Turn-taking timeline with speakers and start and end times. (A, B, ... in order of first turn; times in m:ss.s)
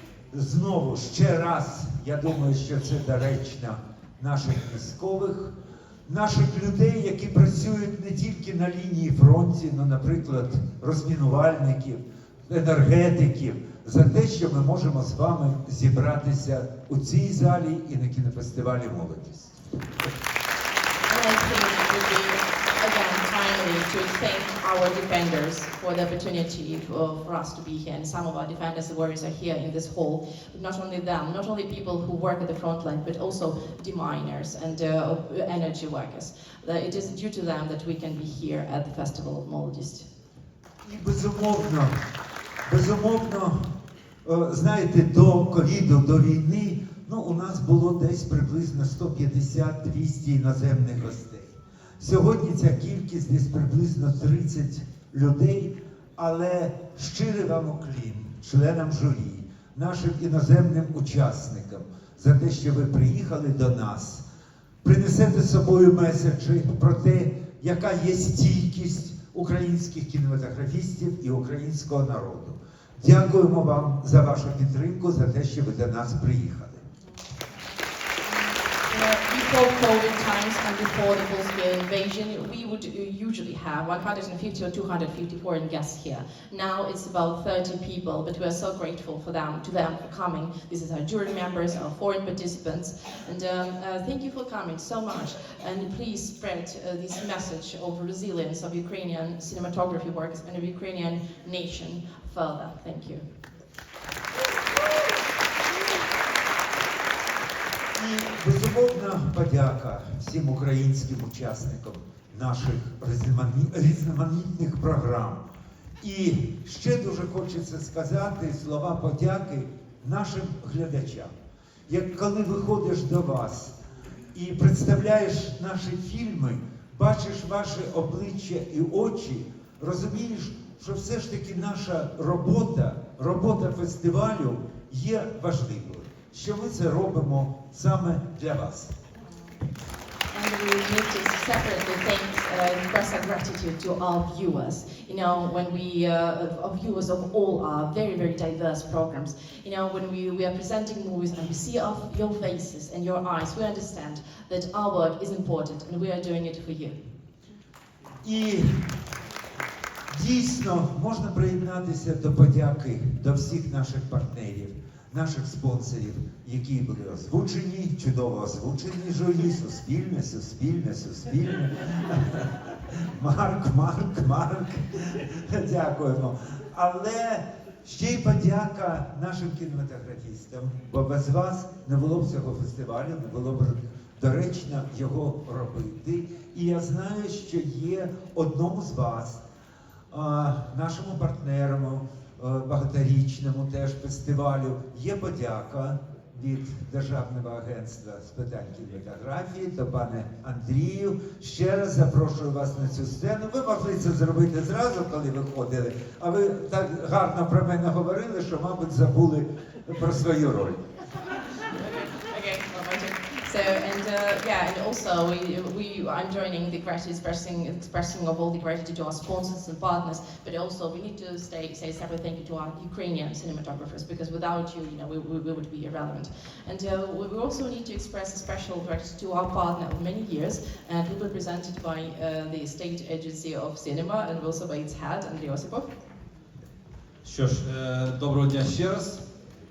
0:00.3-0:05.5 A
0:06.1-0:19.5 A
0:21.1-0:40.1 B
0:40.8-0:41.9 A
0:42.7-0:43.7 A
0:44.2-1:04.2 A
1:04.8-1:16.8 A
1:18.3-1:43.2 B
1:48.0-1:55.4 A
1:56.0-2:01.3 A
2:01.9-2:03.8 A
2:04.3-2:18.9 A
2:20.3-2:37.0 B
2:38.2-2:39.0 A
2:40.1-3:09.4 A
3:10.1-3:30.8 A
3:31.7-3:56.0 B
3:57.3-3:59.2 C